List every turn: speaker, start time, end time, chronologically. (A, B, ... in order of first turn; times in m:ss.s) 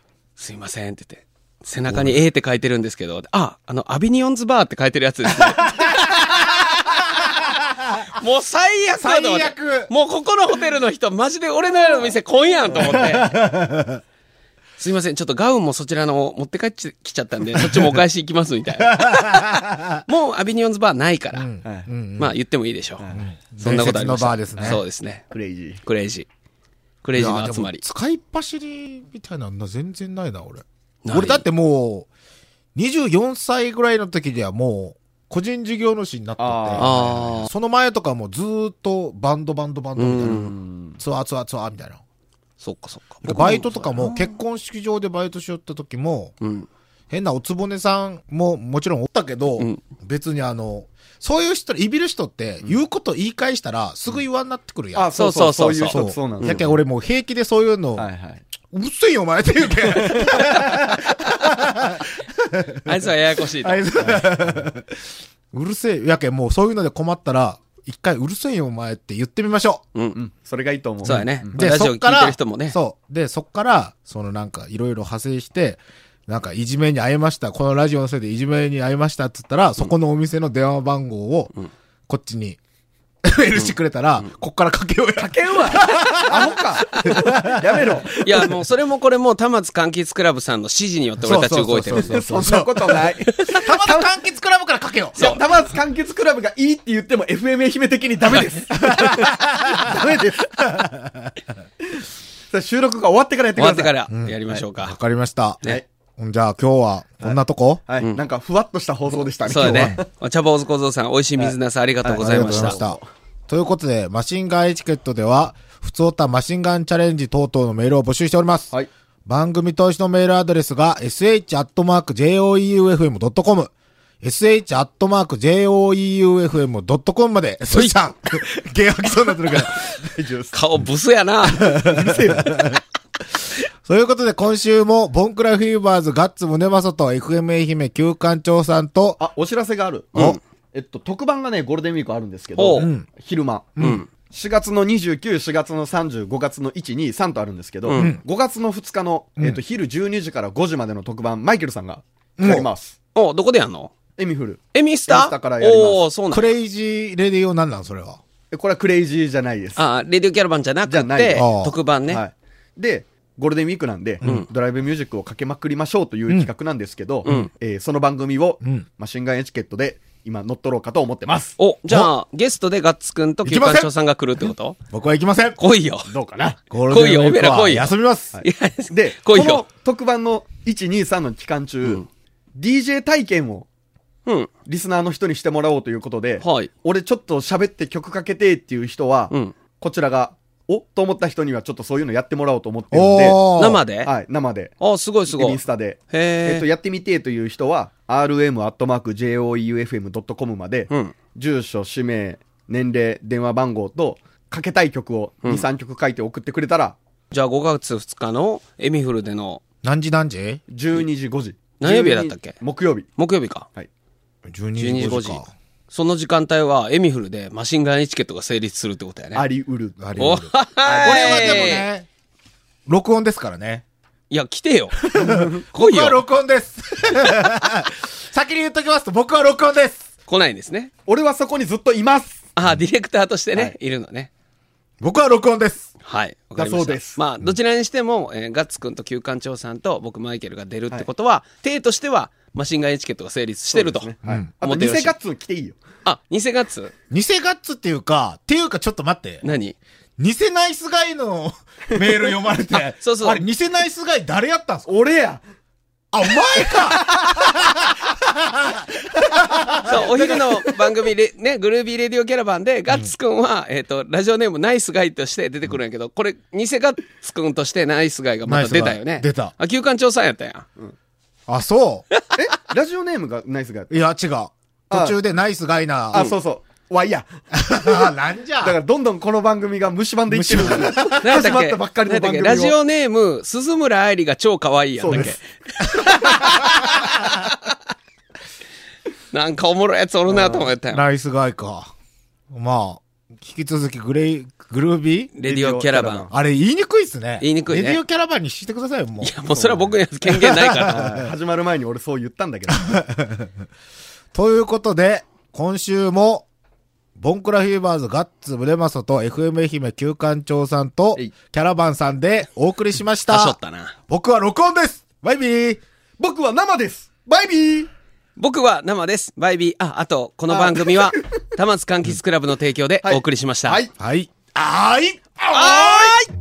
0:00.4-0:13.3 A
0:01.9-0:02.2 B
0:05.4-0:08.1 B
0:09.0-0:09.9 B
0:12.7-0:14.0 B
0:14.8-0:21.5 A
0:17.6-0:18.0 B
0:18.8-0:20.0 B
0:21.3-0:22.4 B
0:21.6-0:21.9 C
0:22.2-0:25.2 A
0:23.0-0:23.3 C
0:23.1-0:24.8 B
0:25.3-0:25.8 C
0:25.8-0:26.3 A
0:27.0-0:27.8 A
0:27.1-0:32.1 B
0:31.0-0:31.4 A
0:32.7-0:42.0 B
0:36.4-0:36.9 C
0:36.8-0:37.5 A
0:40.0-0:40.5 A
0:40.2-0:41.0 C
0:42.6-0:44.3 A
0:43.2-0:46.3 B
0:46.4-0:46.7 A
0:47.1-0:55.1 B
0:54.9-0:56.8 C
0:55.1-0:56.6 A
0:55.9-0:58.1 B
0:58.0-0:58.4 C
0:58.7-1:09.8 B
1:00.0-1:00.5 C
1:00.2-1:01.5 A
1:02.8-1:04.2 A
1:10.2-1:11.5 C
1:11.0-1:12.8 A
1:11.0-1:21.5 B
1:22.1-1:22.6 B
1:23.2-1:28.5 B
1:23.6-1:24.2 A
1:25.2-1:28.2 C
1:26.9-1:27.1 A
1:28.1-1:32.2 A
1:31.2-1:35.2 B
1:31.9-1:34.2 C
1:35.2-1:40.6 C
1:35.2-1:35.4 A
1:38.8-1:41.3 B
1:42.5-1:44.0 C
1:43.6-1:44.9 A
1:44.1-1:45.6 B
1:46.2-1:47.8 B
1:47.2-1:50.1 C
1:49.5-1:52.8 A
1:49.5-1:50.0 B
1:51.4-1:53.0 C
1:52.2-1:58.7 B
1:59.2-2:10.1 B
2:10.1-2:10.5 C
2:10.5-2:11.9 A
2:11.6-2:12.8 C
2:11.6-2:12.8 B
2:13.8-2:19.2 B
2:19.2-2:32.9 C
2:22.6-2:22.9 A
2:22.7-2:23.1 B
2:23.8-2:24.0 B
2:23.8-2:24.1 A
2:27.8-2:28.2 A
2:27.9-2:28.2 B
2:32.4-2:32.7 B
2:33.1-2:33.9 A
2:34.2-2:36.0 C
2:34.7-2:36.5 A
2:36.3-2:38.2 B
2:38.5-2:39.8 C
2:39.8-2:42.2 A
2:40.9-2:41.5 C
2:41.3-2:41.7 B
2:42.1-2:51.6 C
2:44.2-2:44.5 A
2:51.6-2:54.8 A
2:53.4-2:53.9 B
2:54.9-2:55.6 B
2:55.6-2:56.1 A
2:56.1-2:56.6 C
2:56.7-2:58.4 B
2:56.9-2:59.6 A
2:58.3-3:02.0 C
3:02.6-3:03.7 C
3:04.6-3:13.5 C
3:06.4-3:06.7 A
3:09.3-3:09.5 A
3:12.9-3:13.8 B
3:13.5-3:14.1 A
3:14.0-3:14.8 C
3:14.8-3:15.6 A
3:15.3-3:27.0 C
3:16.1-3:16.6 A
3:20.9-3:21.1 A
3:27.3-3:29.6 A
3:29.8-3:30.6 B
3:30.7-3:33.1 C
3:31.8-3:32.6 A
3:33.2-3:33.7 A
3:34.5-3:35.5 B
3:34.8-3:39.4 A
3:39.3-3:41.8 C
3:40.0-3:42.1 B
3:40.2-3:41.9 A
3:42.9-3:43.8 B
3:44.3-3:46.2 A
3:45.1-3:50.1 B
3:45.1-3:45.6 C
3:50.3-3:50.9 A
3:51.1-3:52.4 C
3:52.6-3:54.3 A
3:55.0-3:55.9 B
3:56.0-4:05.1 A
3:56.6-3:57.2 C
4:03.7-4:05.8 C
4:04.2-4:04.5 B
4:06.0-4:06.9 A
4:07.1-4:09.4 B
4:09.4-4:09.8 A
4:10.2-4:14.9 B
4:12.7-4:13.4 A
4:14.9-4:15.4 C
4:16.1-4:20.4 B
4:16.3-4:17.8 C
4:19.1-4:20.0 C
4:19.8-4:30.7 A
4:28.4-4:29.5 B
4:31.5-4:32.0 B
4:32.3-4:33.9 C
4:33.9-4:36.2 B
4:34.9-4:35.2 C
4:36.1-4:42.8 C
4:37.5-4:38.8 B
4:40.3-4:41.5 B
4:41.1-4:47.7 A
4:45.0-4:45.4 C
4:46.0-4:47.3 B
4:46.1-4:46.6 C
4:49.3-4:51.0 A
4:50.4-4:50.6 C
4:50.9-4:51.9 B
4:52.5-4:55.3 B
4:55.4-4:56.3 A
4:55.4-4:56.4 C
4:56.3-5:01.3 B
4:57.4-4:58.0 A
4:59.2-5:01.1 A
5:00.7-5:02.9 C
5:02.7-5:03.6 B
5:04.3-5:06.5 B
5:07.2-5:13.5 B
5:13.3-5:14.0 A
5:14.1-5:15.8 B
5:16.2-5:17.9 C
5:18.4-5:23.8 A
5:20.5-5:21.4 C
5:23.0-5:23.9 C
5:24.0-5:25.2 B
5:25.4-5:26.3 C
5:25.5-5:26.2 A